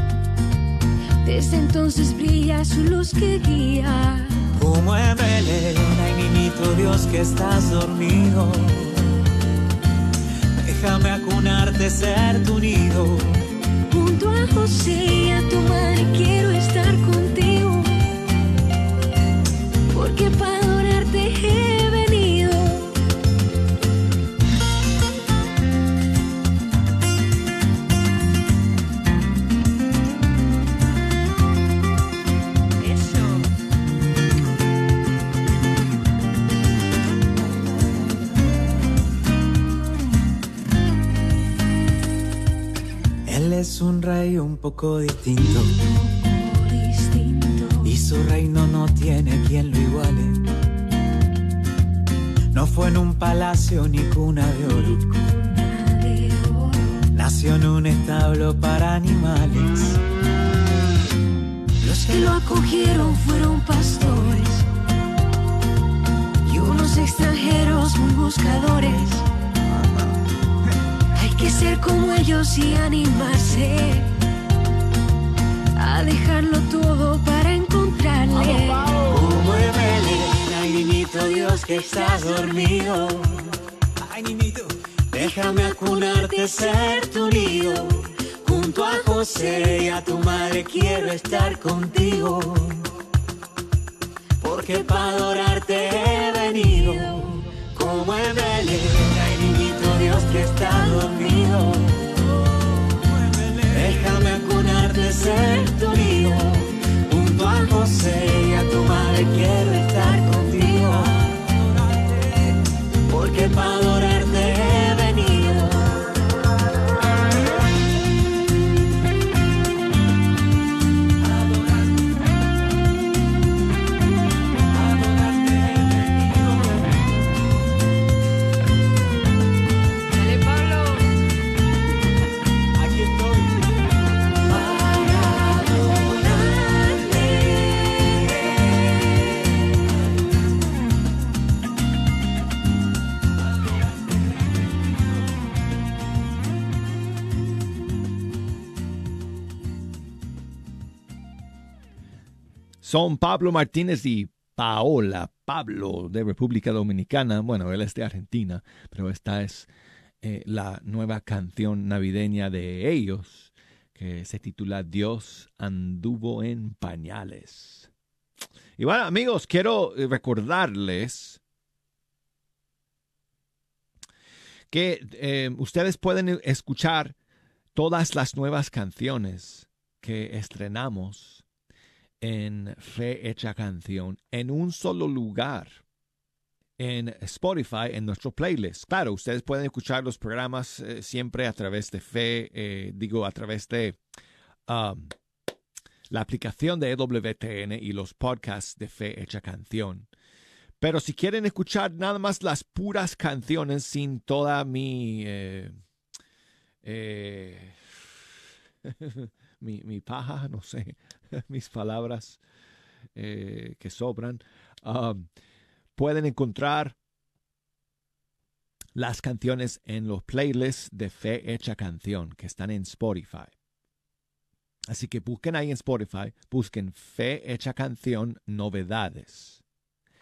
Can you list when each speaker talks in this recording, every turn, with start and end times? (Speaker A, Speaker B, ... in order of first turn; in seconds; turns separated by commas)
Speaker A: 1.2-4.4, Speaker B: 4.6-9.0, Speaker B: 10.6-13.4, Speaker A: 13.9-18.1, Speaker A: 19.9-22.9, Speaker B: 43.3-45.8, Speaker A: 45.8-47.9, Speaker B: 47.8-50.4, Speaker B: 52.5-55.2, Speaker A: 55.2-57.0, Speaker B: 57.1-60.0, Speaker A: 61.8-64.6, Speaker A: 66.4-69.2, Speaker A: 71.1-74.1, Speaker A: 75.8-78.9, Speaker B: 78.3-83.5, Speaker A: 81.8-82.4, Speaker B: 84.0-92.8, Speaker B: 94.4-102.0, Speaker B: 103.1-112.4, Speaker A: 110.1-111.1, Speaker B: 113.1-115.9, Speaker B: 124.8-125.6, Speaker B: 134.7-135.4, Speaker C: 152.8-159.7, Speaker C: 160.2-167.9, Speaker C: 168.8-171.4, Speaker C: 174.7-177.1, Speaker C: 177.7-181.4, Speaker C: 182.2-185.8, Speaker C: 186.8-194.0, Speaker C: 194.7-195.1, Speaker C: 196.1-200.1, Speaker C: 200.8-205.8, Speaker C: 206.8-207.8, Speaker C: 208.9-212.4, Speaker C: 213.1-215.3, Speaker C: 215.9-216.9, Speaker C: 218.9-223.5, Speaker C: 224.9-229.6